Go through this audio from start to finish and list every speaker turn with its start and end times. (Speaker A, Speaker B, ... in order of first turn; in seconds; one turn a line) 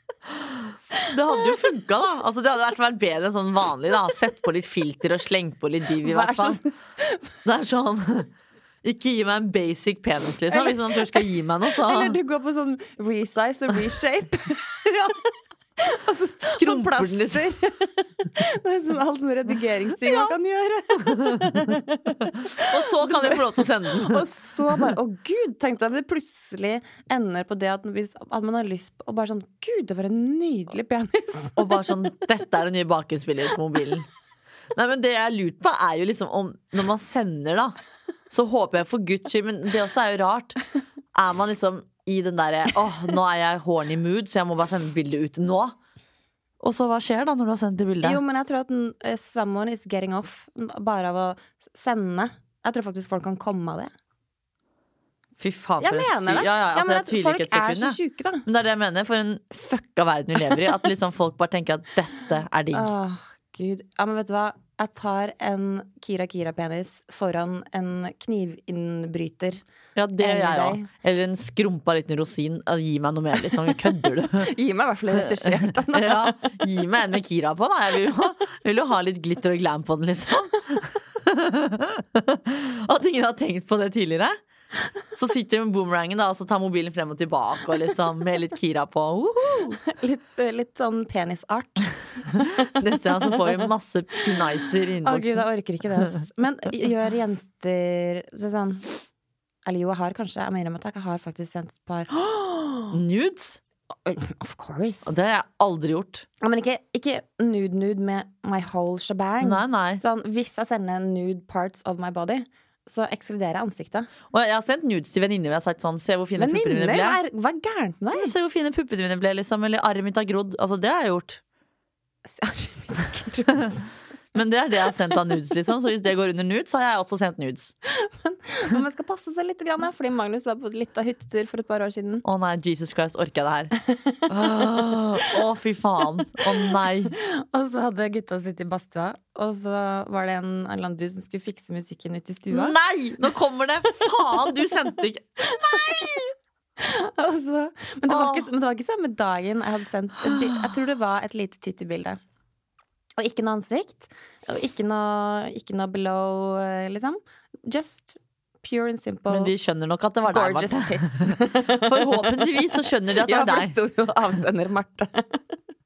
Speaker A: 0.4-6.6
Speaker B: 0.9-1.4
Speaker B: 6.0-7.3
Speaker A: 7.5-8.3
Speaker A: 8.8-12.2
Speaker B: 10.5-31.7
Speaker A: 16.4-17.5
Speaker A: 20.0-20.3
Speaker A: 21.1-21.6
Speaker A: 22.5-24.9
Speaker A: 31.6-34.1
Speaker A: 34.7-37.8
Speaker A: 38.3-40.6
Speaker A: 41.1-45.8
Speaker A: 46.6-48.2
Speaker B: 48.0-53.9
Speaker A: 55.4-62.9
Speaker B: 55.8-58.5
Speaker B: 62.7-69.6
Speaker A: 70.0-74.5
Speaker B: 70.2-70.9
Speaker B: 74.3-76.6
Speaker A: 75.1-84.4
Speaker A: 85.1-89.8
Speaker B: 89.8-93.7
Speaker A: 92.6-95.5
Speaker B: 95.0-98.9
Speaker B: 99.7-103.0
Speaker A: 102.9-103.6
Speaker B: 104.1-105.1
Speaker A: 105.0-106.3
Speaker B: 106.4-114.1
Speaker A: 109.4-110.0
Speaker A: 114.3-117.2
Speaker B: 116.4-118.3
Speaker A: 118.1-121.4
Speaker B: 122.3-123.9
Speaker A: 124.3-127.7
Speaker B: 127.8-132.2
Speaker A: 132.2-133.7
Speaker B: 133.9-134.3
Speaker A: 134.3-137.1
Speaker B: 136.6-142.8
Speaker A: 142.5-146.2
Speaker B: 143.9-144.7
Speaker B: 145.4-152.2
Speaker A: 148.1-148.5
Speaker A: 150.2-150.8
Speaker B: 153.2-159.5
Speaker A: 159.3-163.8
Speaker B: 160.2-165.4